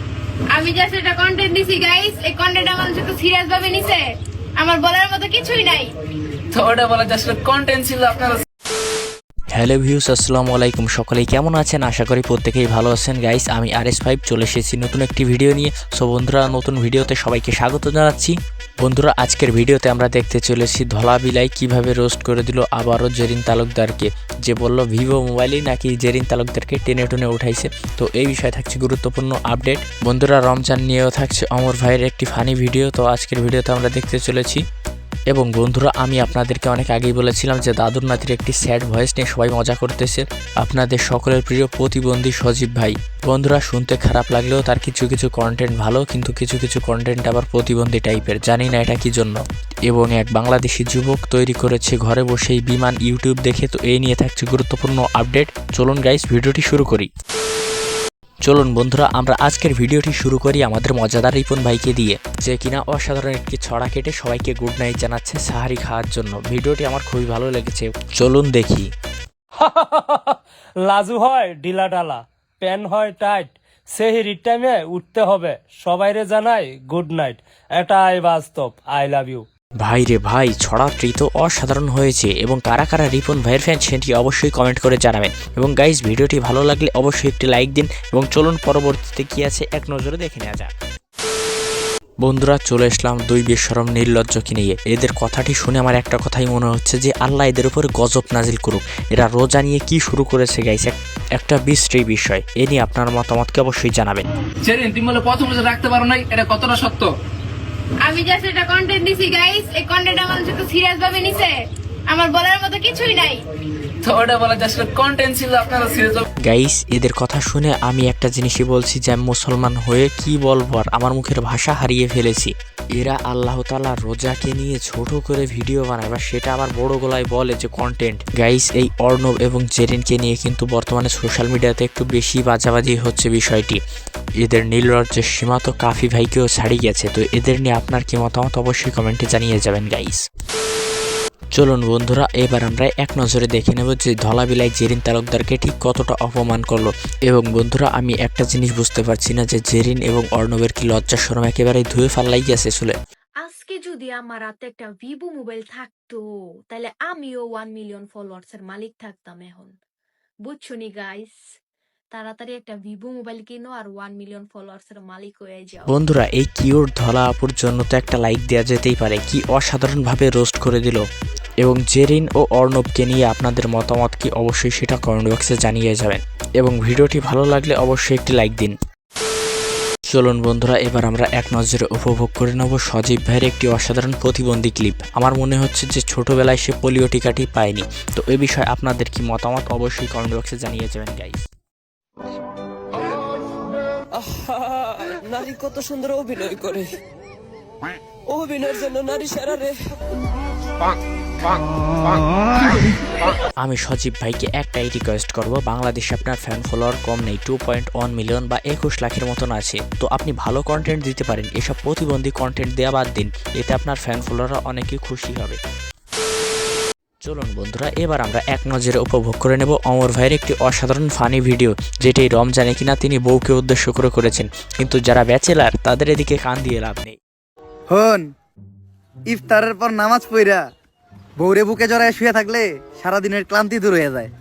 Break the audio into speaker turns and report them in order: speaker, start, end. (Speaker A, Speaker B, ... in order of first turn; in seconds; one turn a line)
Speaker A: 0.5-5.9
Speaker B: 6.5-8.4
Speaker C: 9.5-34.6
Speaker C: 35.3-57.1
Speaker C: 58.4-68.9
Speaker D: 69.6-79.4
Speaker C: 79.8-90.7
Speaker C: 92.2-104.2
Speaker B: 104.6-107.1
Speaker A: 108.0-113.4
Speaker B: 114.0-116.2
Speaker C: 116.4-133.8
Speaker C: 134.4-140.2
Speaker C: 141.5-152.9
Speaker E: 153.4-159.7
Speaker E: 160.4-161.4
Speaker E: 162.1-165.9
Speaker C: 165.9-171.0
Speaker C: 171.6-178.7
Speaker C: 180.1-191.4
Speaker F: 194.1-197.0
Speaker F: 198.3-199.9
Speaker C: 203.6-215.6
Speaker C: 217.2-227.2
Speaker G: 227.9-228.3
Speaker G: 229.3-230.6
Speaker G: 231.4-234.3